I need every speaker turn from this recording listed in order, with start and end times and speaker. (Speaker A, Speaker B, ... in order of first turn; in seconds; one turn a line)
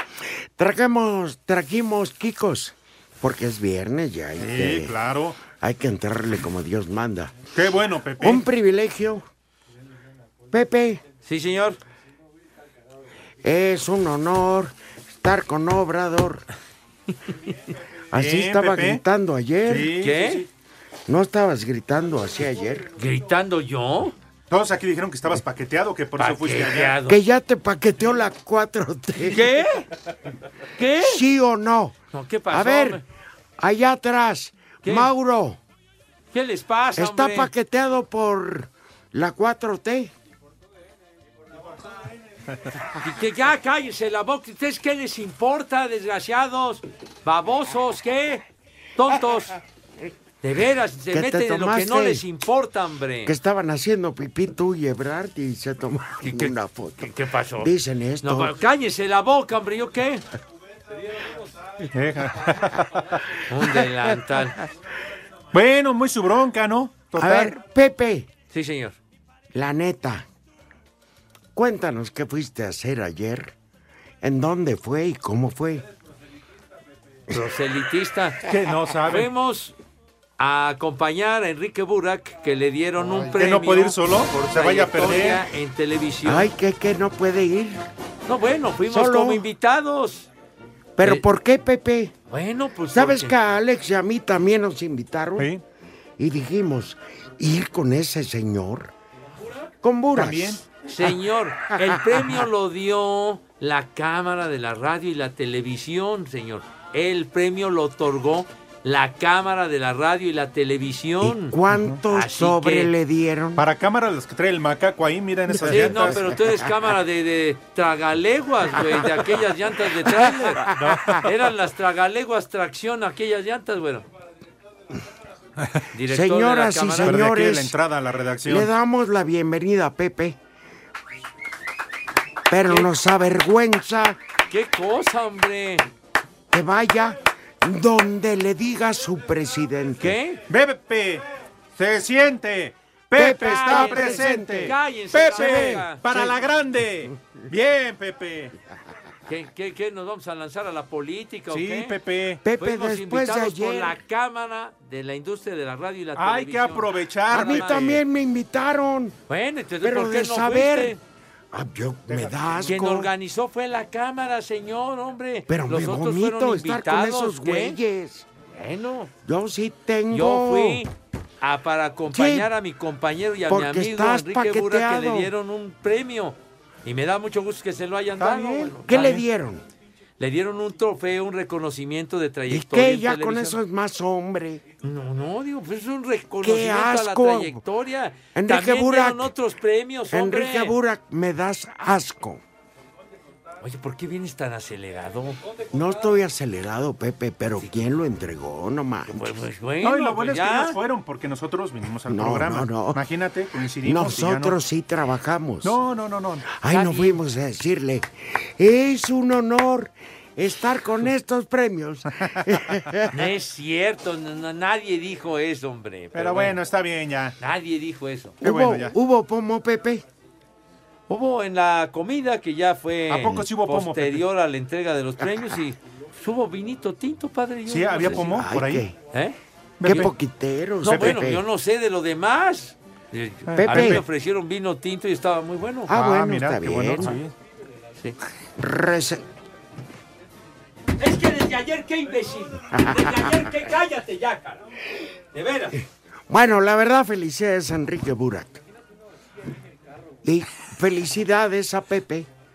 Speaker A: 0.6-4.9
Speaker B: 4.4-5.4
Speaker A: 5.5-7.4
Speaker B: 7.5-8.4
Speaker A: 8.2-9.2
Speaker A: 10.5-11.0
Speaker C: 11.2-11.8
Speaker A: 13.4-16.4
Speaker A: 18.1-19.9
Speaker B: 18.1-19.0
Speaker B: 19.6-20.5
Speaker C: 20.0-20.4
Speaker A: 21.1-22.9
Speaker C: 23.0-24.1
Speaker B: 24.5-27.0
Speaker C: 26.2-27.2
Speaker A: 27.1-29.5
Speaker C: 29.2-29.9
Speaker C: 30.8-31.2
Speaker A: 31.0-32.0
Speaker C: 32.1-33.0
Speaker A: 32.5-33.0
Speaker A: 33.6-35.6
Speaker C: 34.8-35.1
Speaker C: 36.3-37.5
Speaker A: 37.0-40.1
Speaker C: 43.0-48.4
Speaker C: 49.0-49.6
Speaker C: 50.4-53.3
Speaker A: 51.1-52.2
Speaker A: 53.2-58.6
Speaker C: 56.2-60.2
Speaker B: 61.9-63.2
Speaker C: 63.5-64.6
Speaker B: 65.5-67.5
Speaker A: 67.2-68.3
Speaker C: 68.5-69.0
Speaker A: 69.5-70.3
Speaker A: 71.5-73.5
Speaker A: 74.2-75.8
Speaker C: 77.3-78.5
Speaker B: 78.5-79.3
Speaker C: 79.1-79.7
Speaker C: 80.4-86.5
Speaker B: 83.0-85.5
Speaker A: 86.2-87.8
Speaker C: 88.3-90.3
Speaker A: 88.9-89.5
Speaker A: 91.0-92.1
Speaker C: 92.3-93.3
Speaker A: 92.9-95.5
Speaker A: 96.2-98.9
Speaker A: 99.8-100.6
Speaker B: 100.1-100.7
Speaker C: 100.8-111.6
Speaker A: 101.7-102.2
Speaker A: 111.2-113.6
Speaker B: 111.7-112.0
Speaker C: 112.1-112.9
Speaker B: 113.6-116.2
Speaker C: 115.6-124.0
Speaker A: 115.8-116.6
Speaker B: 120.7-121.3
Speaker C: 125.9-127.2
Speaker A: 126.0-127.7
Speaker B: 127.0-128.7
Speaker A: 128.5-130.4
Speaker A: 132.5-134.2
Speaker C: 134.5-135.8
Speaker A: 136.5-140.2
Speaker C: 140.0-140.4
Speaker B: 140.5-141.2
Speaker B: 141.8-148.5
Speaker A: 143.2-144.8
Speaker C: 143.4-146.0
Speaker A: 145.3-146.3
Speaker C: 149.3-152.0
Speaker B: 151.5-152.4
Speaker A: 152.4-154.0
Speaker C: 152.6-157.9
Speaker B: 156.2-158.0
Speaker A: 157.3-159.2
Speaker C: 159.3-161.0
Speaker A: 159.8-161.0
Speaker A: 161.5-163.1
Speaker B: 162.1-162.8
Speaker C: 162.7-167.8
Speaker A: 165.5-168.3
Speaker C: 168.6-169.1
Speaker A: 169.2-170.9
Speaker C: 170.1-170.9
Speaker C: 171.4-179.2
Speaker A: 172.1-172.5
Speaker A: 173.5-175.3
Speaker B: 178.2-179.0
Speaker A: 178.8-179.7
Speaker C: 180.2-183.6
Speaker A: 182.5-184.6
Speaker C: 184.8-190.7
Speaker A: 186.4-187.6
Speaker A: 188.3-189.3
Speaker A: 190.1-192.4
Speaker C: 193.6-195.4
Speaker A: 195.7-199.5
Speaker C: 199.1-200.8
Speaker B: 199.8-204.6
Speaker A: 202.1-203.0
Speaker A: 203.8-205.8
Speaker B: 205.6-206.5
Speaker A: 206.5-213.3
Speaker C: 206.7-207.2
Speaker C: 213.1-216.6
Speaker B: 216.2-217.4
Speaker C: 217.4-218.4
Speaker A: 218.4-220.0
Speaker B: 218.4-218.9
Speaker C: 221.1-228.4
Speaker B: 223.1-224.3
Speaker B: 227.7-228.8
Speaker A: 228.2-228.9
Speaker C: 229.1-230.1
Speaker B: 229.8-230.1
Speaker A: 229.8-231.4
Speaker C: 230.8-235.9
Speaker B: 230.8-231.2
Speaker B: 233.5-234.0
Speaker A: 233.6-234.0
Speaker A: 235.9-237.2
Speaker B: 235.9-237.3
Speaker A: 238.6-239.2
Speaker C: 241.0-244.6
Speaker A: 242.8-243.3
Speaker C: 245.3-245.7
Speaker A: 245.7-248.6
Speaker A: 250.2-252.3